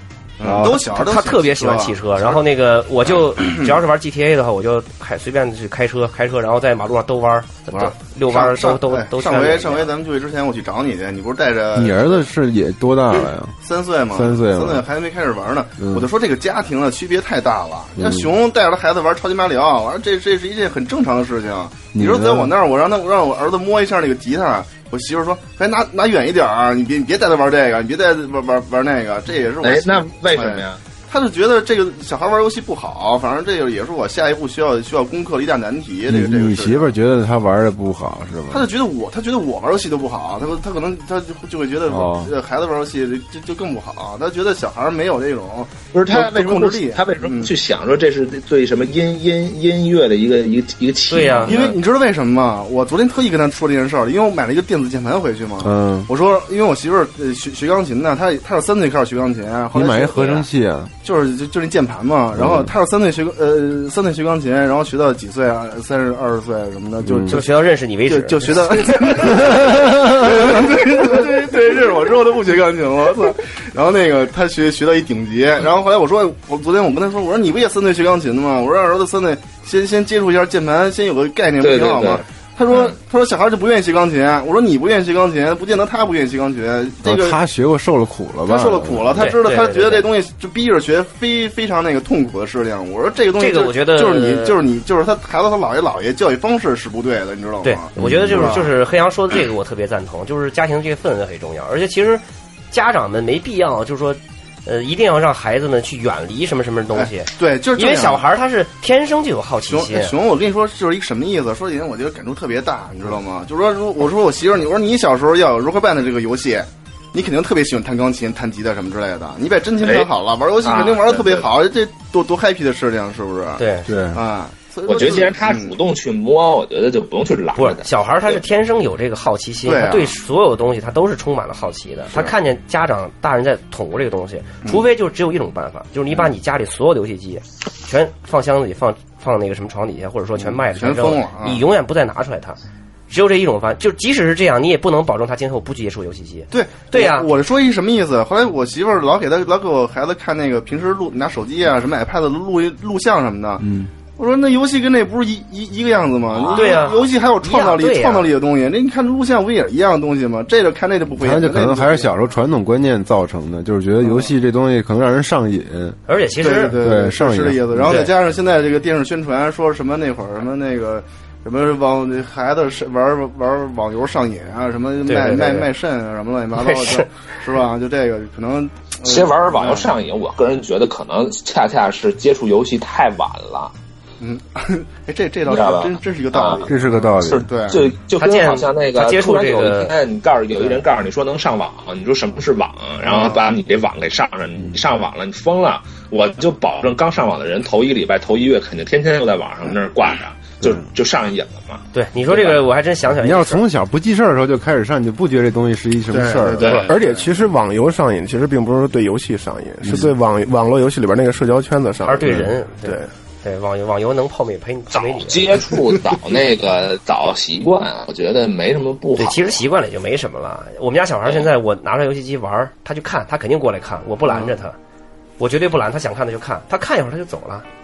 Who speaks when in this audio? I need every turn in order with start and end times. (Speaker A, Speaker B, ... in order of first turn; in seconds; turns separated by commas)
Speaker A: 0.4-2.4, Speaker B: 0.4-0.8, Speaker C: 0.6-9.9, Speaker A: 3.4-3.7, Speaker A: 7.7-12.2, Speaker B: 11.7-13.6, Speaker A: 13.6-36.9, Speaker B: 14.1-14.9, Speaker B: 15.8-16.1, Speaker B: 18.0-18.3, Speaker B: 21.9-22.5, Speaker D: 29.6-30.8, Speaker B: 36.1-38.7, Speaker A: 38.5-47.5, Speaker B: 41.9-42.3, Speaker D: 45.9-51.8, Speaker C: 51.1-51.6, Speaker A: 51.5-60.5, Speaker B: 55.6-56.1, Speaker B: 59.7-60.9, Speaker A: 61.0-67.5, Speaker B: 62.4-62.7, Speaker B: 67.0-67.4, Speaker C: 67.3-69.8, Speaker A: 68.1-87.4, Speaker B: 69.5-70.4, Speaker D: 81.6-83.0, Speaker B: 87.0-89.3, Speaker A: 88.5-98.7, Speaker C: 89.2-90.1, Speaker C: 93.4-94.6, Speaker C: 97.6-110.2, Speaker B: 98.0-98.6, Speaker A: 106.9-108.2, Speaker A: 109.7-125.8, Speaker D: 119.8-120.1, Speaker D: 120.6-121.5, Speaker C: 123.6-123.9, Speaker B: 123.9-124.2, Speaker D: 124.9-128.4, Speaker C: 127.6-142.6, Speaker A: 129.7-130.1, Speaker A: 140.4-141.6, Speaker C: 143.1-147.3, Speaker A: 146.5-153.7, Speaker B: 153.6-153.9, Speaker A: 154.2-162.2, Speaker D: 156.3-156.8, Speaker C: 156.5-158.3, Speaker B: 161.2-166.0, Speaker A: 164.0-164.3, Speaker C: 166.1-166.8, Speaker A: 166.4-179.9, Speaker B: 166.5-168.1, Speaker C: 167.8-168.1, Speaker C: 175.1-175.7, Speaker C: 176.6-177.1, Speaker D: 179.0-183.7, Speaker A: 184.2-187.9, Speaker D: 185.5-186.7, Speaker B: 186.7-187.5, Speaker D: 187.2-202.6, Speaker C: 188.2-189.9, Speaker A: 193.1-193.4, Speaker C: 201.9-203.6, Speaker B: 203.1-206.8, Speaker A: 206.1-207.4, Speaker D: 206.6-206.9, Speaker E: 206.8-213.1, Speaker B: 209.8-210.1, Speaker C: 212.0-215.6, Speaker D: 214.9-219.6, Speaker C: 219.2-224.8, Speaker A: 224.3-224.5, Speaker C: 225.4-227.7